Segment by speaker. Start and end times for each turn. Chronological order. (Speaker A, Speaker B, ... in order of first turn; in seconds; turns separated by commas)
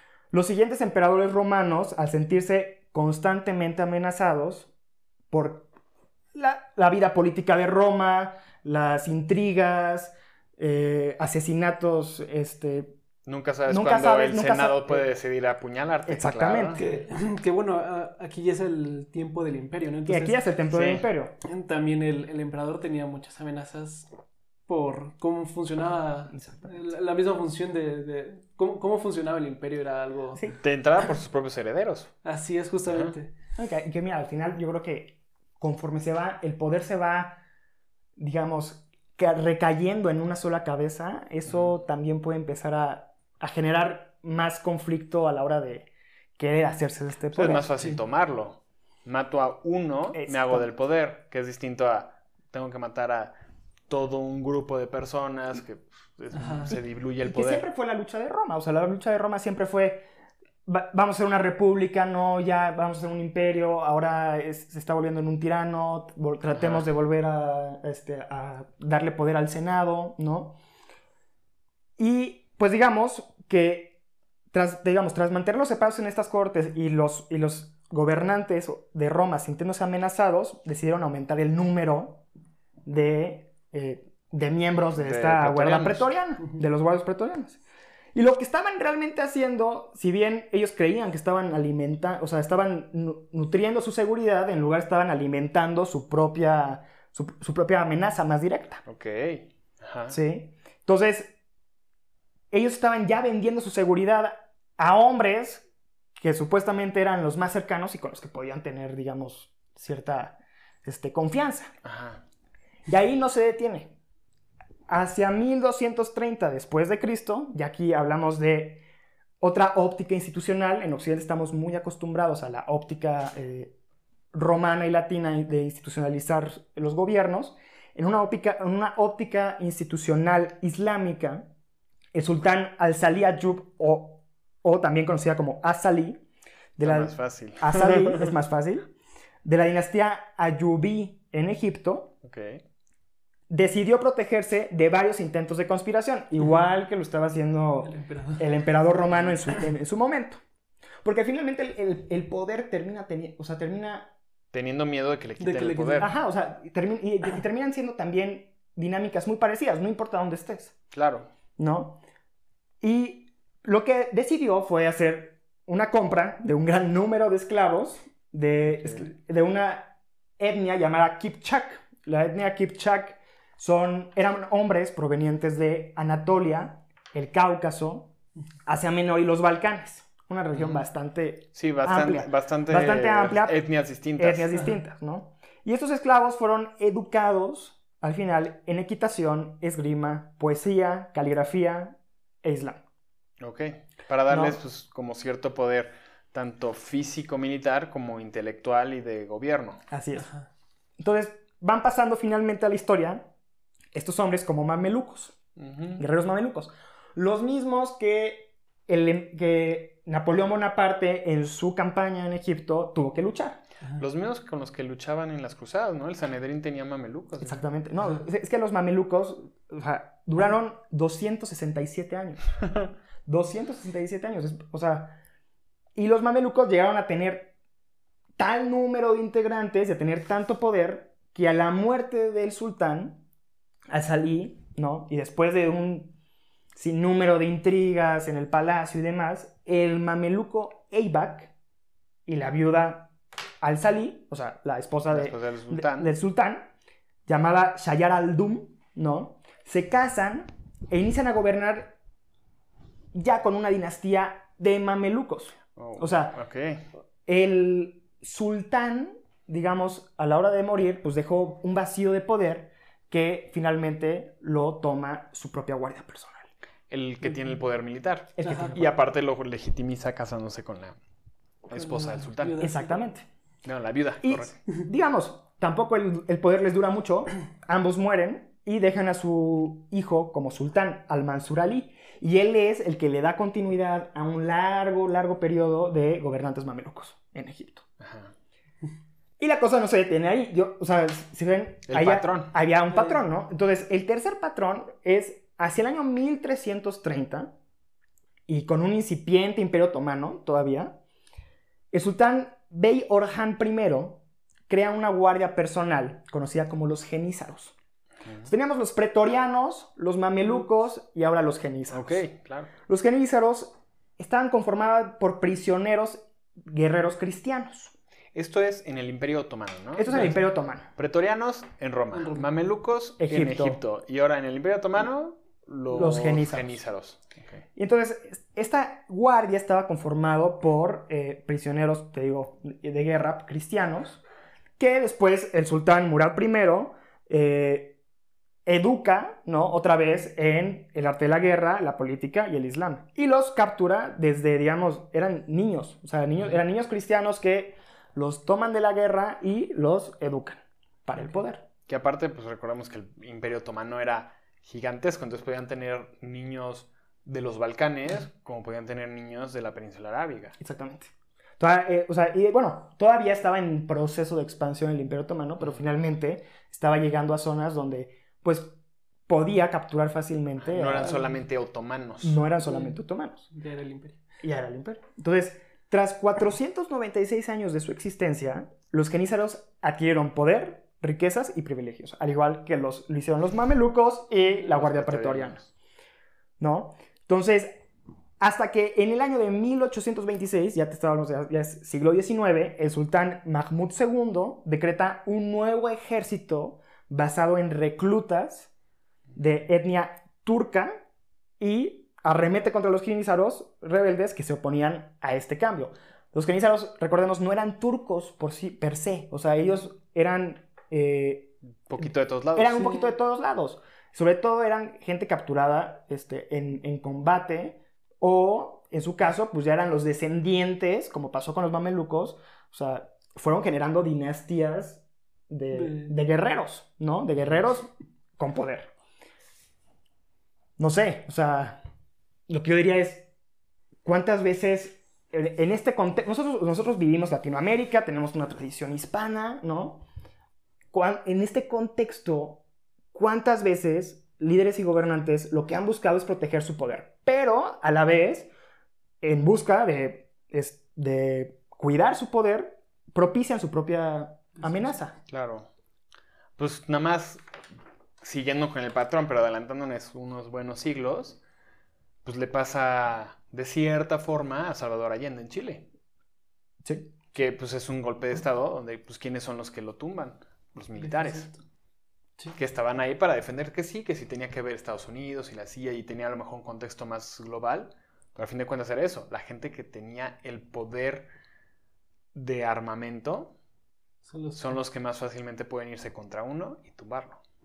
Speaker A: 0.3-4.7, Speaker A: 5.3-5.7, Speaker A: 6.3-12.9, Speaker B: 13.2-16.8, Speaker A: 13.7-15.1, Speaker A: 16.1-17.0, Speaker C: 16.8-20.4, Speaker A: 20.1-21.3, Speaker B: 20.7-21.1, Speaker C: 21.4-24.1, Speaker C: 24.7-30.4, Speaker A: 26.3-26.7, Speaker B: 30.6-32.1, Speaker C: 32.2-33.3, Speaker B: 32.9-33.1, Speaker A: 33.5-37.4, Speaker A: 38.2-47.7, Speaker B: 47.3-53.3, Speaker A: 50.1-50.7, Speaker B: 53.9-57.6, Speaker C: 56.3-56.8, Speaker A: 57.2-60.0, Speaker A: 60.6-70.6, Speaker B: 66.5-66.8, Speaker A: 72.0-74.0, Speaker A: 74.5-82.2, Speaker A: 82.8-87.6, Speaker B: 85.0-86.1, Speaker A: 88.1-98.8, Speaker B: 98.8-100.2, Speaker A: 100.1-101.3, Speaker A: 102.5-105.7, Speaker A: 106.2-111.7, Speaker B: 111.8-112.2, Speaker A: 112.9-114.0, Speaker A: 114.9-118.8, Speaker A: 119.4-123.7, Speaker A: 124.3-131.5, Speaker A: 132.1-136.2, Speaker A: 136.8-138.9, Speaker B: 136.8-138.3, Speaker A: 139.4-142.1, Speaker B: 142.2-142.6, Speaker A: 143.5-150.4, Speaker C: 147.8-148.4, Speaker A: 151.0-154.1, Speaker B: 154.5-156.1, Speaker C: 155.4-156.1, Speaker A: 156.0-160.8, Speaker B: 160.9-161.3, Speaker A: 161.6-162.0, Speaker A: 162.8-178.1, Speaker A: 178.7-183.6, Speaker B: 180.5-180.8, Speaker B: 181.5-184.6, Speaker A: 184.2-192.8, Speaker B: 193.4-199.8, Speaker A: 194.3-194.6, Speaker A: 199.9-200.3, Speaker C: 200.1-200.5, Speaker A: 201.0-203.3, Speaker A: 203.9-205.4, Speaker B: 205.6-206.0, Speaker A: 206.0-213.6, Speaker B: 214.0-217.6, Speaker A: 217.4-222.6, Speaker A: 223.2-225.2, Speaker A: 225.9-227.5, Speaker A: 228.4-233.2, Speaker A: 233.9-236.2, Speaker A: 236.8-241.5, Speaker A: 242.2-246.7, Speaker B: 245.1-246.1, Speaker A: 247.3-251.9, Speaker A: 253.1-256.4, Speaker B: 255.8-256.9, Speaker A: 257.2-266.5, Speaker B: 266.9-271.0, Speaker A: 268.4-268.8, Speaker C: 268.4-268.8, Speaker B: 271.7-272.6, Speaker C: 271.7-273.0, Speaker A: 272.6-273.2, Speaker B: 273.6-274.6, Speaker A: 274.2-287.8, Speaker B: 288.0-288.3, Speaker A: 289.4-297.5, Speaker B: 291.9-292.5, Speaker C: 292.9-293.2, Speaker A: 298.5-301.0, Speaker A: 301.9-307.7, Speaker A: 308.4-312.2, Speaker B: 311.9-312.7, Speaker A: 312.8-317.9, Speaker B: 318.3-320.4, Speaker A: 319.9-320.9, Speaker B: 320.9-327.6, Speaker C: 322.1-322.5, Speaker A: 323.2-323.8, Speaker A: 325.9-326.8, Speaker A: 327.8-334.2, Speaker A: 334.8-337.9, Speaker A: 338.6-351.6, Speaker B: 351.9-360.6, Speaker A: 360.6-368.8, Speaker A: 369.3-371.2, Speaker B: 370.6-372.4, Speaker A: 372.2-373.4, Speaker C: 372.6-372.9, Speaker C: 373.5-374.2, Speaker A: 374.4-385.6, Speaker B: 384.6-385.7, Speaker A: 386.6-387.8, Speaker A: 388.4-398.7, Speaker A: 399.4-400.9, Speaker A: 401.6-411.5, Speaker B: 411.9-412.9, Speaker A: 412.5-428.9, Speaker C: 412.8-413.1, Speaker C: 425.7-426.1, Speaker A: 430.8-431.8, Speaker A: 432.5-433.3, Speaker A: 434.0-440.0, Speaker A: 440.9-442.6, Speaker A: 443.1-448.5, Speaker A: 449.2-455.1, Speaker B: 455.3-455.7, Speaker B: 456.6-457.4, Speaker B: 458.2-461.4, Speaker B: 462.2-465.9, Speaker A: 466.8-467.1, Speaker B: 467.3-471.5, Speaker C: 471.0-471.6, Speaker B: 472.5-481.3, Speaker B: 482.3-483.5, Speaker C: 484.2-484.8, Speaker B: 484.6-487.4